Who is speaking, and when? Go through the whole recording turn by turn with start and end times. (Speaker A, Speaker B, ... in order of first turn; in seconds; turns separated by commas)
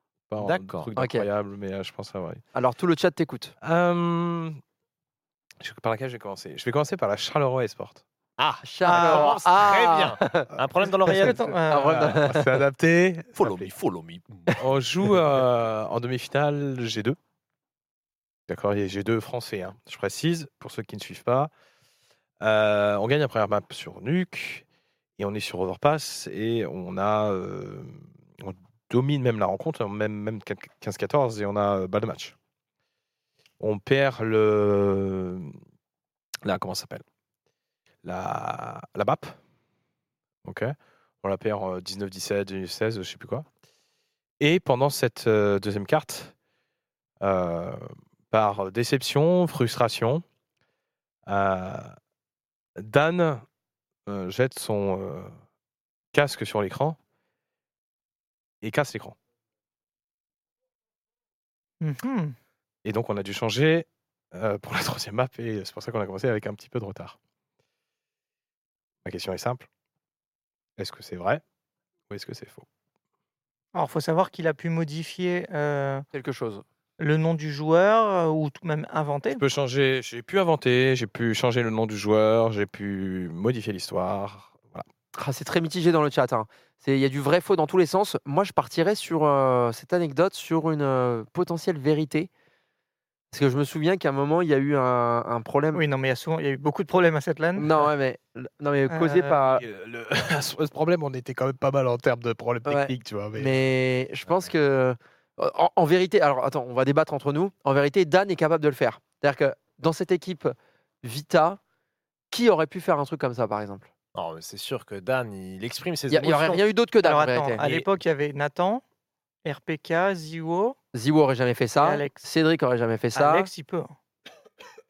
Speaker A: 0.3-2.4, Speaker B: 0.4-0.9, Speaker C: 0.9-1.3, Speaker C: 2.5-3.5, Speaker A: 3.6-4.6, Speaker A: 5.6-8.0, Speaker B: 8.4-11.4, Speaker C: 8.6-10.5, Speaker D: 8.8-9.4, Speaker D: 11.0-12.2, Speaker C: 11.1-12.6, Speaker A: 11.8-13.7, Speaker B: 13.4-14.5, Speaker A: 14.6-17.2, Speaker A: 18.5-21.5, Speaker A: 22.4-24.6, Speaker A: 25.2-32.3, Speaker A: 33.6-35.5, Speaker A: 36.4-37.0, Speaker A: 38.0-39.4, Speaker A: 40.4-43.5, Speaker A: 44.4-46.3, Speaker A: 47.2-50.2, Speaker A: 51.2-51.9, Speaker A: 52.8-53.4, Speaker A: 54.1-55.3, Speaker A: 56.1-57.0, Speaker A: 58.6-59.1, Speaker D: 61.8-62.4, Speaker A: 62.8-67.2, Speaker A: 69.0-69.7, Speaker A: 70.8-71.4, Speaker A: 72.1-72.6, Speaker D: 73.7-76.0, Speaker C: 76.1-76.6, Speaker D: 77.0-79.4, Speaker A: 79.3-84.8, Speaker C: 85.1-92.3, Speaker C: 93.3-95.8, Speaker D: 95.7-97.9, Speaker C: 97.5-99.6, Speaker D: 98.9-99.4, Speaker A: 99.5-103.7, Speaker C: 102.7-111.6, Speaker C: 112.3-113.9, Speaker B: 114.1-116.6, Speaker C: 116.1-117.6, Speaker D: 117.0-118.8, Speaker B: 117.6-117.8, Speaker D: 119.4-120.8, Speaker C: 120.9-123.5, Speaker D: 121.8-122.1, Speaker D: 123.1-124.0